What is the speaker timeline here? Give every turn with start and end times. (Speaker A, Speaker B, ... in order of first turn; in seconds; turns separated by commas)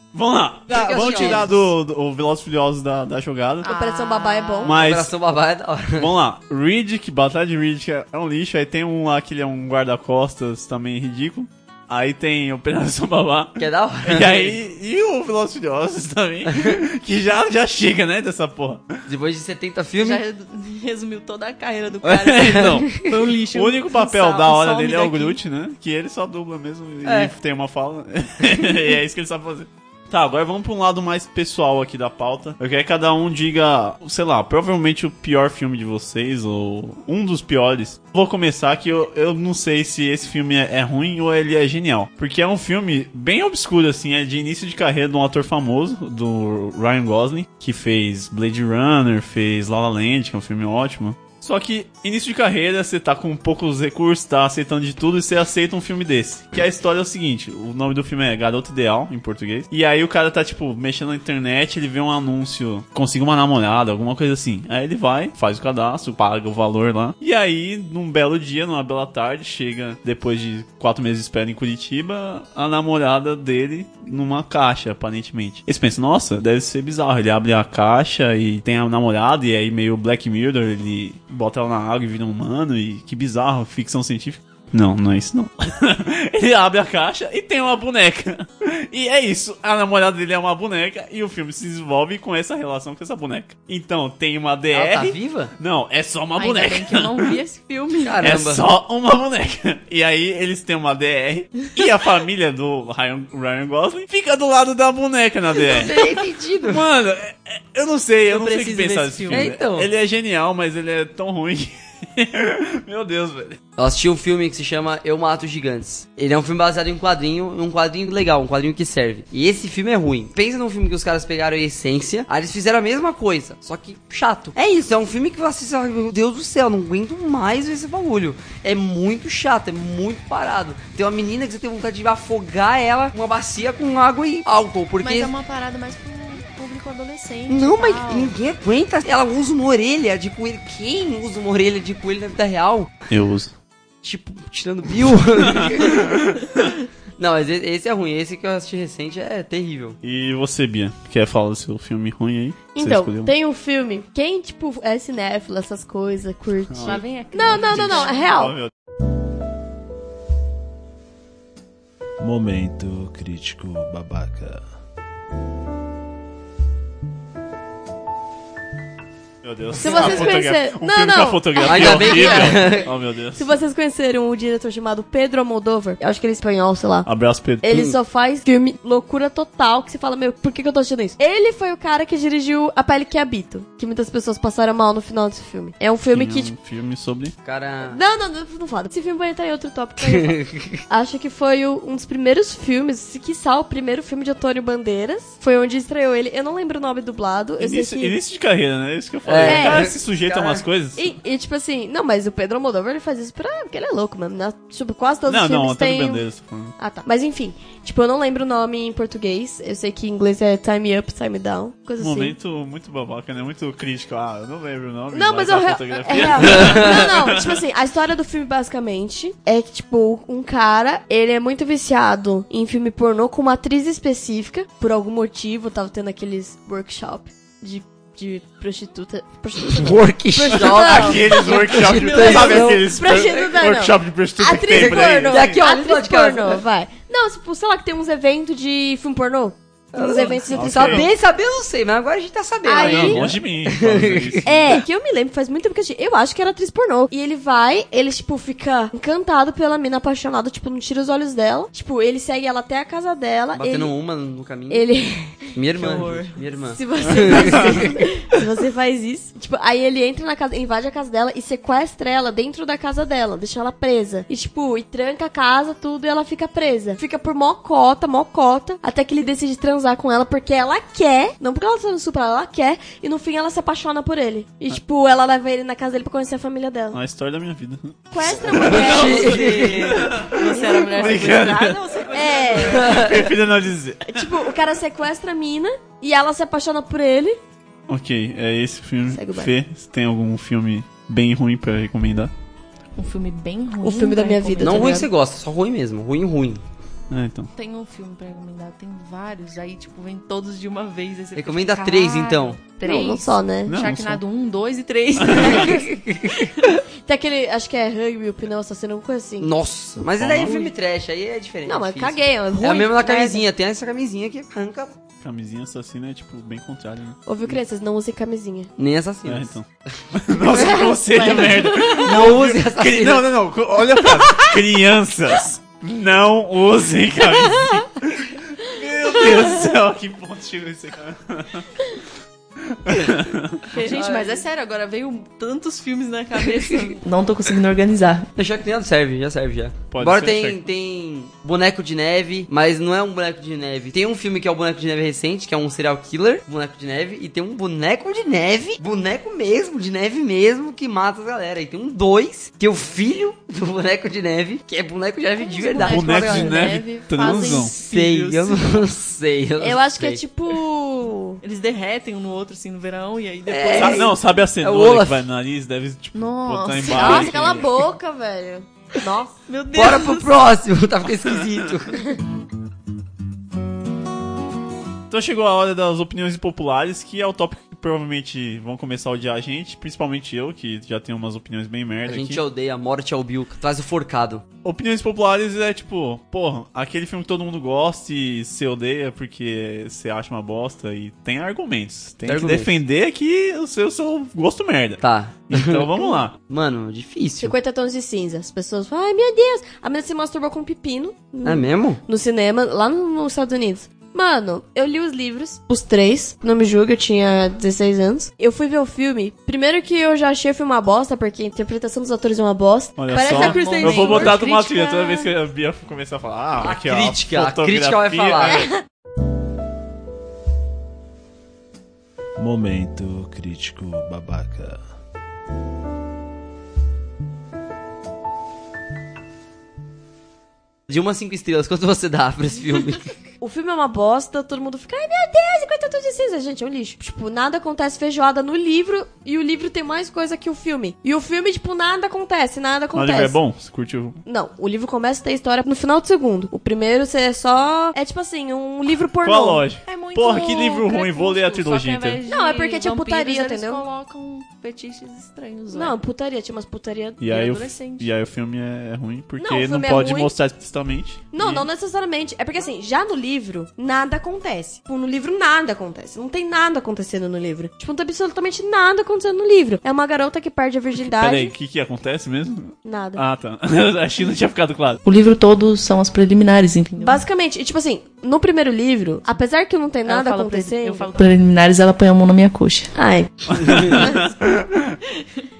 Speaker A: 0.1-3.7, Speaker B: 0.7-1.7, Speaker C: 1.1-1.4, Speaker D: 3.6-4.7, Speaker C: 3.6-4.7, Speaker A: 4.6-5.1, Speaker B: 4.7-6.1, Speaker A: 6.0-18.9, Speaker B: 13.6-14.6, Speaker B: 16.5-16.8, Speaker B: 19.1-20.2, Speaker D: 20.0-25.4, Speaker A: 22.0-23.0, Speaker A: 23.5-97.3, Speaker B: 27.0-27.3, Speaker B: 94.7-95.5, Speaker D: 96.3-98.3, Speaker B: 98.0-98.6, Speaker A: 98.2-106.0, Speaker B: 105.6-106.8, Speaker A: 106.7-113.6, Speaker D: 108.2-109.5, Speaker B: 109.3-109.9, Speaker B: 113.8-135.3, Speaker D: 135.0-138.3, Speaker B: 137.5-142.9, Speaker A: 143.1-143.5, Speaker B: 144.0-146.2, Speaker A: 145.4-146.6, Speaker B: 147.2-150.0, Speaker A: 150.0-153.3, Speaker C: 152.7-158.5, Speaker A: 156.7-157.0, Speaker D: 156.8-158.2, Speaker A: 157.5-158.7, Speaker E: 162.2-164.5, Speaker A: 169.4-173.6, Speaker C: 169.8-177.1, Speaker B: 169.8-170.3, Speaker B: 171.6-172.9, Speaker A: 177.0-177.6, Speaker C: 177.6-186.5, Speaker A: 186.1-187.3, Speaker B: 187.4-188.0, Speaker C: 187.9-198.2, Speaker B: 190.0-190.8, Speaker A: 197.6-201.1, Speaker B: 199.2-200.7, Speaker C: 199.4-199.9, Speaker C: 200.9-206.2, Speaker A: 205.3-206.7, Speaker C: 206.8-212.3, Speaker A: 212.0-217.6, Speaker C: 215.1-231.4, Speaker B: 216.6-217.0, Speaker B: 229.7-233.4, Speaker A: 230.5-235.6, Speaker D: 232.0-232.4, Speaker C: 232.1-241.1, Speaker B: 234.7-236.6, Speaker B: 239.9-244.4, Speaker A: 240.5-241.1, Speaker C: 242.6-243.2, Speaker A: 242.8-244.8, Speaker C: 244.4-253.9, Speaker B: 253.6-258.0, Speaker C: 254.7-255.6, Speaker D: 255.8-256.4, Speaker C: 256.7-277.0, Speaker A: 276.9-281.8, Speaker C: 278.1-279.9, Speaker B: 278.5-280.2, Speaker D: 279.0-283.2, Speaker C: 280.6-281.4, Speaker C: 282.1-283.0, Speaker B: 282.7-283.2, Speaker A: 282.8-284.3, Speaker C: 284.1-287.4, Speaker A: 287.9-292.3, Speaker C: 289.1-289.5, Speaker D: 292.9-295.0, Speaker C: 293.8-295.1, Speaker B: 294.6-296.6, Speaker A: 297.1-297.5, Speaker D: 297.6-305.9, Speaker B: 301.3-302.6, Speaker C: 302.8-303.8, Speaker A: 303.7-304.2, Speaker A: 305.2-305.7, Speaker B: 305.4-306.4, Speaker C: 307.1-309.5, Speaker B: 309.4-314.9, Speaker A: 310.2-310.6, Speaker C: 310.4-310.7, Speaker C: 311.6-313.4, Speaker A: 315.2-317.2, Speaker C: 317.2-318.7, Speaker B: 318.8-319.5, Speaker A: 319.2-331.7, Speaker B: 320.4-323.3, Speaker C: 320.5-322.0, Speaker D: 321.1-322.0, Speaker A: 332.7-333.7, Speaker D: 333.7-338.3, Speaker B: 333.8-334.4, Speaker B: 338.4-356.6, Speaker A: 339.9-340.6, Speaker D: 355.4-358.9, Speaker C: 355.5-357.6, Speaker A: 355.9-357.7, Speaker B: 357.2-360.2, Speaker C: 359.6-361.4, Speaker D: 361.4-364.1, Speaker B: 363.5-365.2, Speaker A: 363.8-367.7, Speaker D: 366.1-367.6, Speaker C: 366.9-369.3, Speaker D: 369.5-370.5, Speaker B: 369.7-372.0, Speaker A: 375.1-382.4, Speaker B: 382.1-384.4, Speaker A: 384.6-396.3, Speaker B: 392.2-392.7, Speaker B: 395.0-397.5, Speaker C: 397.4-415.3, Speaker B: 401.4-402.0, Speaker A: 413.0-418.7, Speaker D: 413.1-414.4, Speaker B: 416.6-418.7, Speaker C: 418.5-418.8, Speaker E: 422.6-424.6, Speaker B: 430.9-433.1, Speaker C: 433.4-443.4, Speaker A: 442.9-444.2, Speaker C: 444.2-449.6, Speaker A: 449.2-452.2, Speaker D: 449.9-456.0, Speaker C: 452.3-453.8, Speaker C: 455.7-457.3, Speaker A: 457.2-461.7, Speaker D: 457.3-458.1, Speaker C: 459.4-460.3, Speaker C: 461.3-471.5, Speaker A: 471.0-475.0, Speaker C: 472.8-473.2, Speaker D: 475.0-477.2, Speaker C: 477.0-481.1, Speaker D: 480.1-482.9, Speaker C: 482.9-484.1, Speaker A: 483.5-485.0